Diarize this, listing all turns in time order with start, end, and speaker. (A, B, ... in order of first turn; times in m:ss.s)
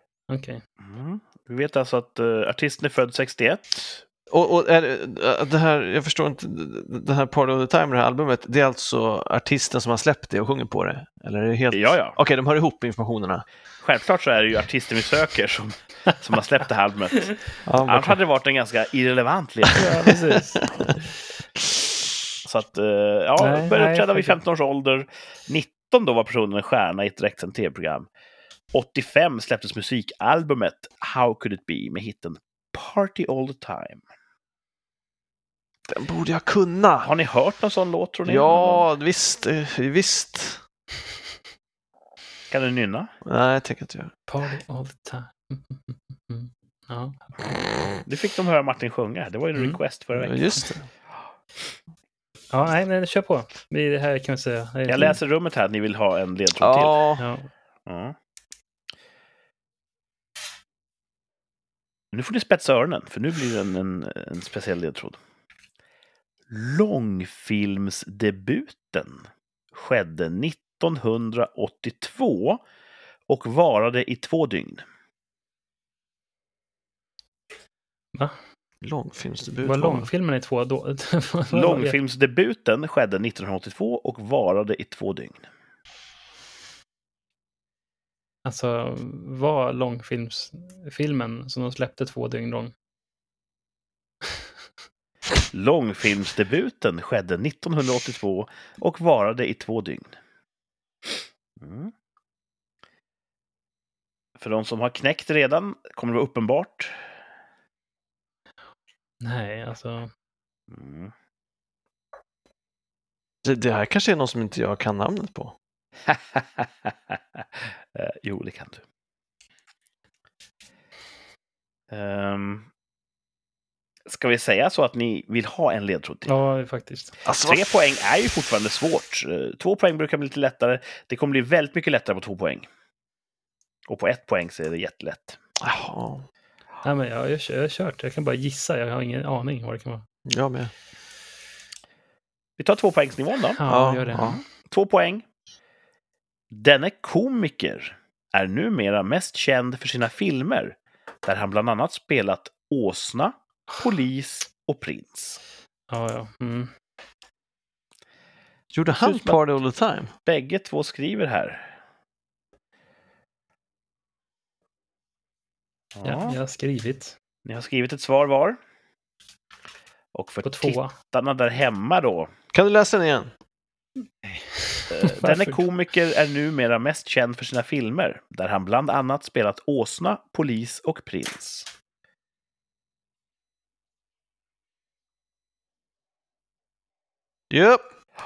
0:00.3-0:00.6 A
0:00.8-0:04.0 B
0:04.3-0:13.4 C
0:11.7-0:12.2 B
0:13.8-0:20.1 B
0:17.6-0:18.2 C
0:19.8-0:20.7 A
0:20.6-0:21.0 C
0:22.4-0:28.1 B
0:23.4-0:24.4 A
0:28.7-0:34.0 B
0:35.9-0:37.1 C
0:37.0-0:38.8 B
0:38.2-0:40.6 C
0:42.5-0:43.1 B
0:43.2-0:44.1 C
0:44.3-0:47.5 A
0:48.0-0:50.5 B
0:50.2-0:50.9 C
0:52.5-0:55.2 A
0:54.9-0:57.0 B
0:56.6-0:57.2 C
0:57.2-0:57.5 A
0:57.8-0:58.1 B
1:02.1-1:05.2 B
1:06.5-1:12.6 B
1:13.3-1:14.8 B
1:18.8-1:20.1 C
1:19.6-1:22.0 A
1:21.5-1:25.4 B
1:28.4-1:32.7 A
1:35.5-1:40.1 B
1:41.6-1:41.9 B
1:44.4-1:47.0 B
1:49.2-1:50.1 A
1:50.7-1:51.1 B
1:53.4-1:55.5 C
1:56.1-1:58.8 B
2:01.9-2:02.7 B
2:04.1-2:06.3 B
2:06.3-2:07.2 A
2:07.2-2:07.8 C
2:07.4-2:12.7 B
2:13.9-2:15.4 B
2:15.6-2:16.2 C
2:16.8-2:20.0 A
2:20.3-2:20.7 C
2:22.6-2:23.6 B
2:23.6-2:24.4 A
2:23.6-2:24.4 C
2:24.6-2:25.2 B
2:26.5-2:35.4 B
2:35.9-2:36.7 A
2:38.7-2:40.1 C
2:38.8-2:39.4 B
2:40.2-2:41.7 B
2:45.9-2:46.4 B
2:46.0-2:47.1 A
2:47.4-2:48.6 B
2:50.1-2:52.3 B
2:50.4-2:50.9 A
2:52.5-2:53.3 C
2:54.2-2:55.6 A
2:54.9-3:01.7 B
3:07.5-3:07.9 C